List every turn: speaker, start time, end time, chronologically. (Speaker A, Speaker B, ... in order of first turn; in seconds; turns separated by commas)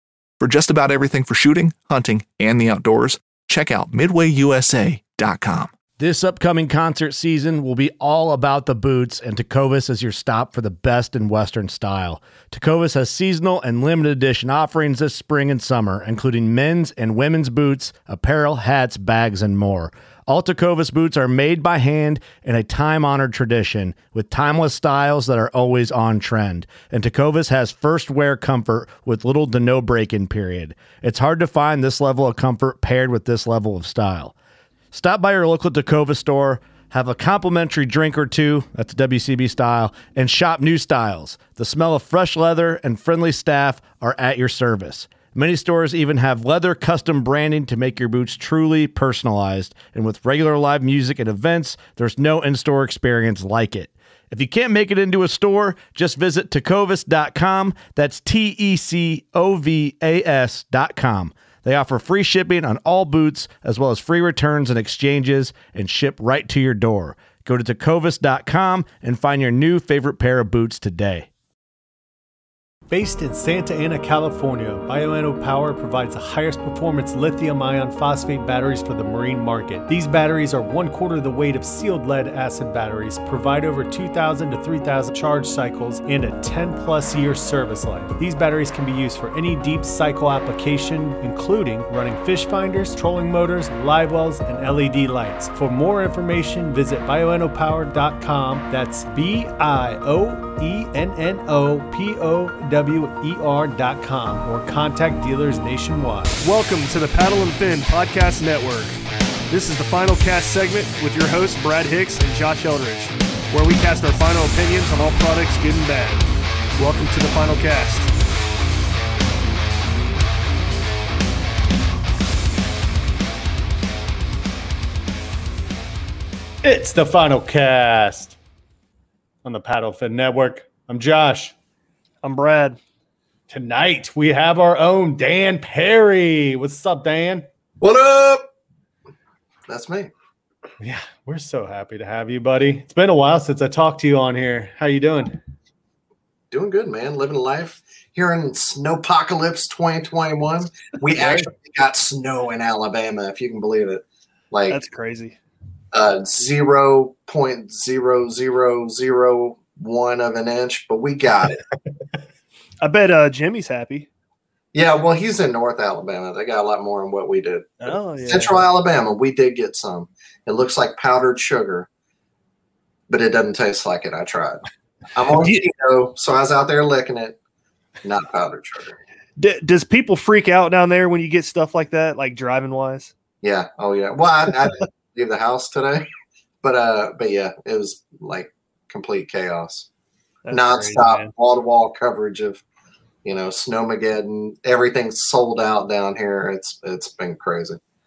Speaker A: 0.4-5.7, Speaker B: 6.0-34.3, Speaker B: 34.9-71.3, Speaker C: 72.9-106.4, Speaker D: 106.4-109.0, Speaker D: 109.5-118.1, Speaker C: 126.6-128.4, Speaker C: 129.4-131.5, Speaker D: 132.2-132.8, Speaker C: 133.5-137.4, Speaker E: 137.8-138.4, Speaker E: 139.7-140.1, Speaker C: 140.8-145.4, Speaker E: 146.5-154.8, Speaker D: 151.2-151.5, Speaker D: 154.7-155.4, Speaker E: 155.9-161.6, Speaker D: 162.8-164.1, Speaker E: 164.7-171.9, Speaker D: 167.8-168.6, Speaker E: 173.1-174.6, Speaker E: 175.2-177.4, Speaker E: 178.0-179.0, Speaker D: 179.4-183.1, Speaker E: 183.4-186.1, Speaker E: 186.6-189.9, Speaker D: 190.4-191.3, Speaker E: 190.5-192.6, Speaker E: 193.2-197.8